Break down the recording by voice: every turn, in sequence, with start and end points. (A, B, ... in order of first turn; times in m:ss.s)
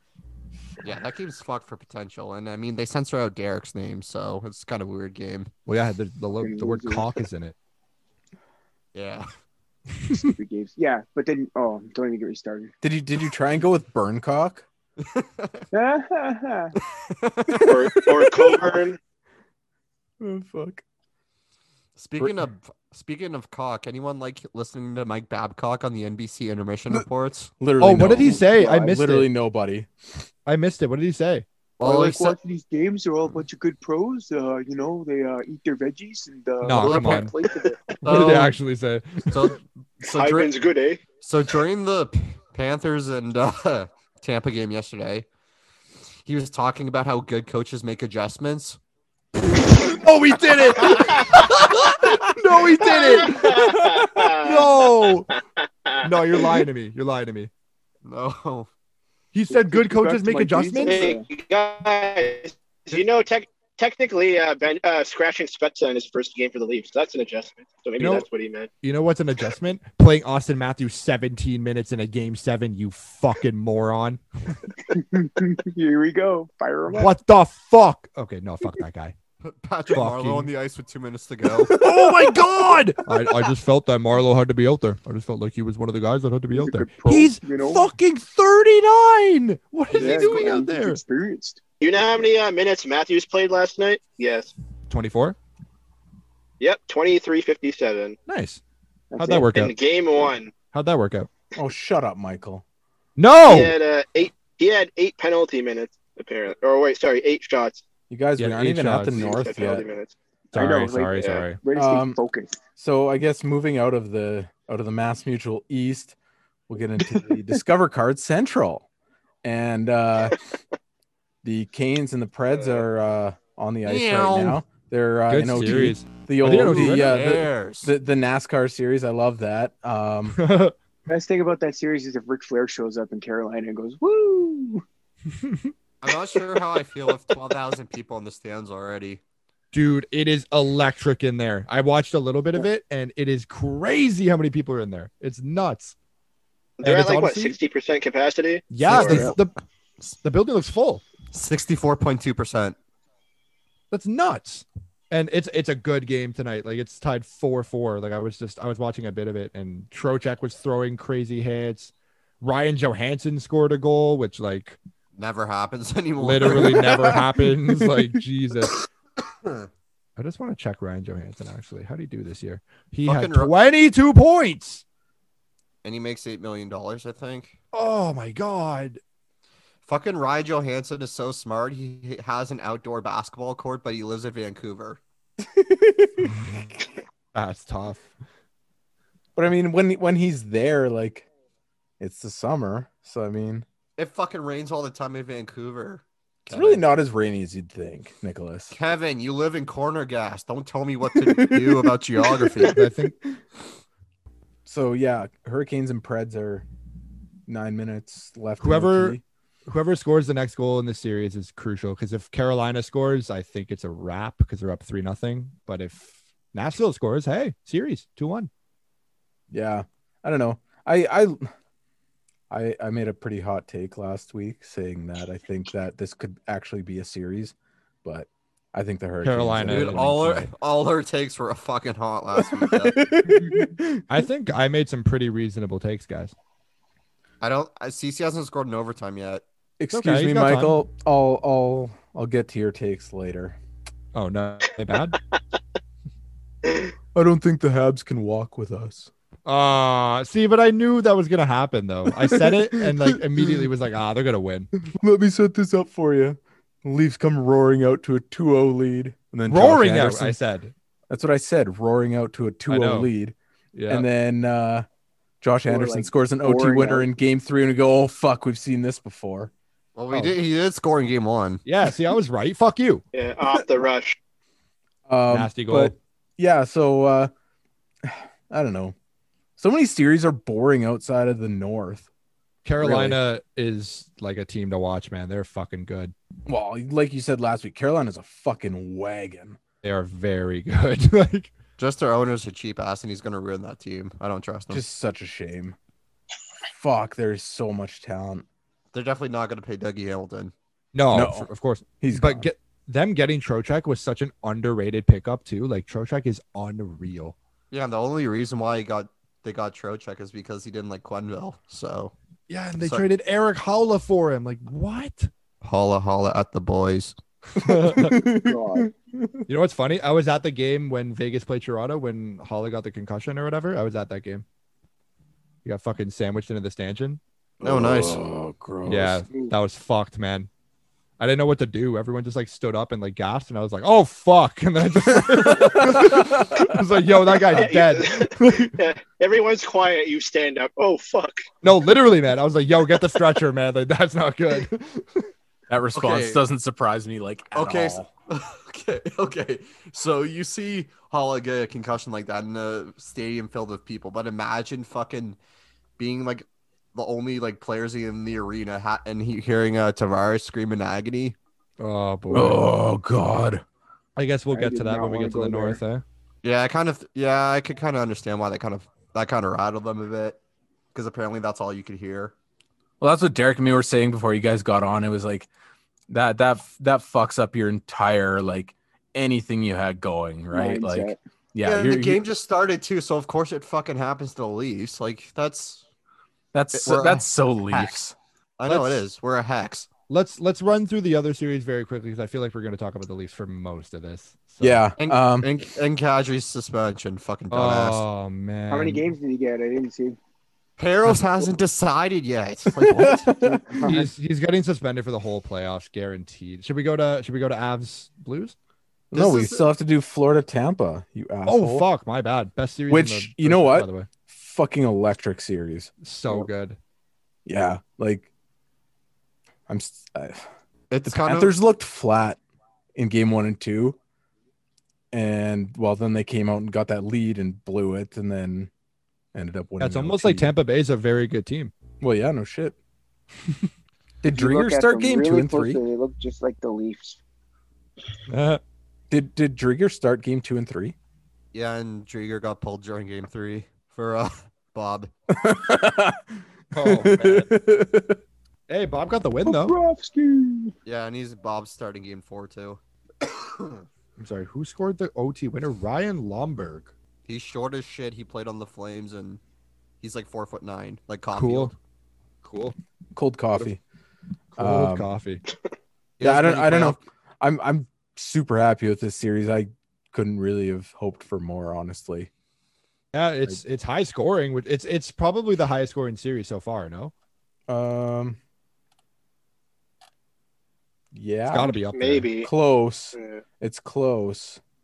0:00.8-0:05.5 A
0:05.6-0:07.5 B
0:06.4-0:07.0 C
0:08.9-0:09.3 A
0:10.2-0:12.7 C
0:12.8-0:14.6 D
0:15.0-0:15.7 A
0:15.7-0:16.7 C
0:17.0-0:17.8 A
0:17.5-0:18.7 D
0:17.6-0:19.0 E
0:20.2-0:20.8 D
0:22.0-0:27.5 A
0:27.6-0:29.9 D
0:27.8-0:29.3 B
0:28.1-0:28.7 C
0:30.4-0:31.4 B
0:31.8-0:32.4 A
0:31.8-0:37.8 C
0:36.6-0:37.3 B
0:36.8-0:37.3 A
0:38.0-0:38.5 A
0:38.0-0:39.5 B
0:39.3-0:40.5 A
0:40.1-0:41.0 E
0:41.2-0:45.2 A
0:46.2-0:48.8 A
0:49.7-0:55.3 B
0:50.9-0:51.3 E
0:52.8-0:54.8 E
0:53.4-0:53.9 D
0:55.9-0:56.5 E
0:56.0-0:57.5 B
0:58.0-0:58.7 A
0:59.3-1:01.1 B
0:59.5-1:01.2 C
1:00.7-1:08.7 E
1:08.0-1:08.2 B
1:08.8-1:14.6 B
1:14.9-1:17.1 C
1:16.9-1:19.2 B
1:19.4-1:21.9 A
1:19.9-1:20.5 B
1:21.7-1:22.1 D
1:21.7-1:31.0 B
1:26.5-1:27.9 C
1:29.9-1:31.6 C
1:30.0-1:30.4 E
1:31.8-1:34.5 E
1:34.9-1:35.4 B
1:36.6-1:38.2 E
1:38.3-1:38.6 B
1:39.1-1:39.5 C
1:39.2-1:39.7 B
1:39.5-1:40.6 E
1:40.7-1:41.3 B
1:41.6-1:42.6 D
1:43.2-1:43.8 B
1:43.4-1:47.8 E
1:48.1-1:49.9 D
1:48.4-1:49.4 B
1:49.1-1:50.1 E
1:50.5-1:51.6 B
1:50.5-1:52.6 C
1:51.2-1:51.4 E
1:51.8-1:52.2 D
1:52.8-1:56.1 D
1:56.7-1:58.9 D
1:59.4-2:00.4 D
2:01.4-2:10.4 D
2:03.9-2:04.6 A
2:05.3-2:07.2 B
2:06.5-2:07.9 A
2:10.3-2:10.8 B
2:11.1-2:14.8 C
2:15.3-2:15.7 B
2:16.0-2:19.2 A
2:19.7-2:25.9 B
2:26.8-2:29.3 E
2:26.8-2:27.6 B
2:28.7-2:29.5 B
2:29.0-2:29.3 A
2:30.2-2:31.0 B
2:31.3-2:32.8 A
2:33.9-2:44.8 B
2:45.2-2:47.1 A
2:46.2-2:48.8 B
2:46.5-2:47.9 D
2:50.2-2:54.8 B
2:53.0-2:53.5 A
2:55.8-2:57.6 A
2:57.7-2:59.0 B
2:59.9-3:05.0 A
3:05.5-3:06.3 D
3:07.3-3:08.1 B
3:09.4-3:11.3 D
3:12.0-3:13.6 D
3:14.0-3:16.8 A
3:16.5-3:18.8 D
3:18.7-3:22.8 A
3:21.1-3:21.9 D
3:22.4-3:22.6 D
3:22.7-3:23.1 B
3:24.6-3:26.6 D
3:27.5-3:29.2 D
3:28.6-3:38.5 B
3:39.5-3:41.5 D
3:42.5-3:50.1 D
3:49.2-3:50.5 B
3:49.7-3:53.1 A
3:52.4-3:54.0 D
3:54.1-3:56.3 B
3:57.4-3:59.4 A
3:59.8-4:03.6 D
3:59.9-4:00.8 B
4:04.1-4:05.2 B
4:07.1-4:09.1 D
4:09.4-4:14.7 B
4:12.3-4:13.5 D
4:14.9-4:20.4 D
4:19.5-4:20.7 B
4:21.1-4:23.4 D
4:22.7-4:23.1 B
4:23.7-4:24.0 B
4:23.9-4:24.9 D
4:25.4-4:29.5 D
4:25.6-4:27.1 C
4:30.0-4:31.6 A
4:31.6-4:33.0 B
4:33.1-4:34.2 E
4:35.1-4:37.3 D
4:35.3-4:35.9 B
4:38.0-4:38.9 D
4:39.6-4:42.1 D
4:42.6-4:46.1 B
4:42.8-4:43.2 D
4:46.4-4:49.6 D
4:49.8-4:51.5 B
4:51.8-4:54.8 A
4:54.7-4:55.8 D
4:56.7-4:58.4 D
4:58.9-5:00.5 A
5:00.9-5:07.4 B
5:01.1-5:01.5 D
5:02.0-5:02.5 D
5:07.7-5:12.1 A
5:12.5-5:15.3 B
5:12.8-5:13.0 A
5:15.6-5:17.1 A
5:17.6-5:18.2 B
5:17.6-5:19.4 D
5:18.3-5:18.9 C
5:19.5-5:24.4 B
5:25.6-5:27.2 B
5:27.6-5:29.3 D
5:27.6-5:28.2 A
5:28.9-5:30.5 B
5:31.2-5:38.8 B
5:35.2-5:36.6 D
5:37.5-5:41.4 E
5:41.6-5:45.3 B
5:45.7-5:48.1 D
5:45.9-5:46.4 A
5:47.6-5:55.4 A
5:56.0-6:01.4 A
6:01.8-6:02.6 B
6:02.3-6:03.6 D
6:04.2-6:06.0 B
6:04.5-6:05.8 C
6:06.4-6:10.4 A
6:10.9-6:12.3 A
6:13.0-6:15.5 D
6:16.1-6:22.2 D
6:20.5-6:21.2 C
6:21.6-6:25.8 A
6:26.5-6:28.1 D
6:26.7-6:27.9 A
6:28.6-6:29.9 A
6:28.7-6:29.0 B
6:30.1-6:34.8 B
6:34.6-6:35.5 D
6:35.0-6:38.0 A
6:37.5-6:39.1 B
6:38.7-6:40.2 C
6:40.8-6:43.4 A
6:42.8-6:44.0 D
6:43.4-6:44.0 C
6:43.8-6:48.6 B
6:49.1-6:51.9 D
6:49.1-6:49.7 A
6:51.4-6:54.1 B
6:52.9-6:55.9 D
6:56.0-6:56.8 B
6:57.4-6:58.3 D
6:59.7-7:00.5 D
7:00.9-7:01.6 A
7:01.1-7:02.4 D
7:02.9-7:04.0 D
7:05.1-7:08.7 D
7:09.3-7:10.5 D
7:09.8-7:11.7 B
7:12.0-7:12.8 D
7:14.2-7:15.8 D
7:14.3-7:17.2 C
7:18.3-7:18.6 B
7:19.1-7:20.9 D
7:21.5-7:25.1 A
7:25.3-7:26.3 D
7:26.7-7:27.5 B
7:26.8-7:28.2 D
7:28.7-7:29.7 B
7:29.4-7:30.7 C
7:30.8-7:32.8 A
7:33.4-7:33.8 A
7:34.2-7:36.9 B
7:37.2-7:39.4 A
7:40.0-7:41.7 A
7:41.3-7:41.7 B
7:42.4-7:42.8 B
7:43.1-7:43.8 D
7:44.6-7:45.4 B
7:44.6-7:45.1 D
7:46.2-7:47.0 A
7:46.2-7:52.3 D
7:53.1-7:57.1 B
7:57.7-7:58.4 D
8:01.1-8:01.7 D
8:01.5-8:02.3 B
8:01.9-8:02.5 E
8:02.4-8:04.6 D
8:03.1-8:03.4 E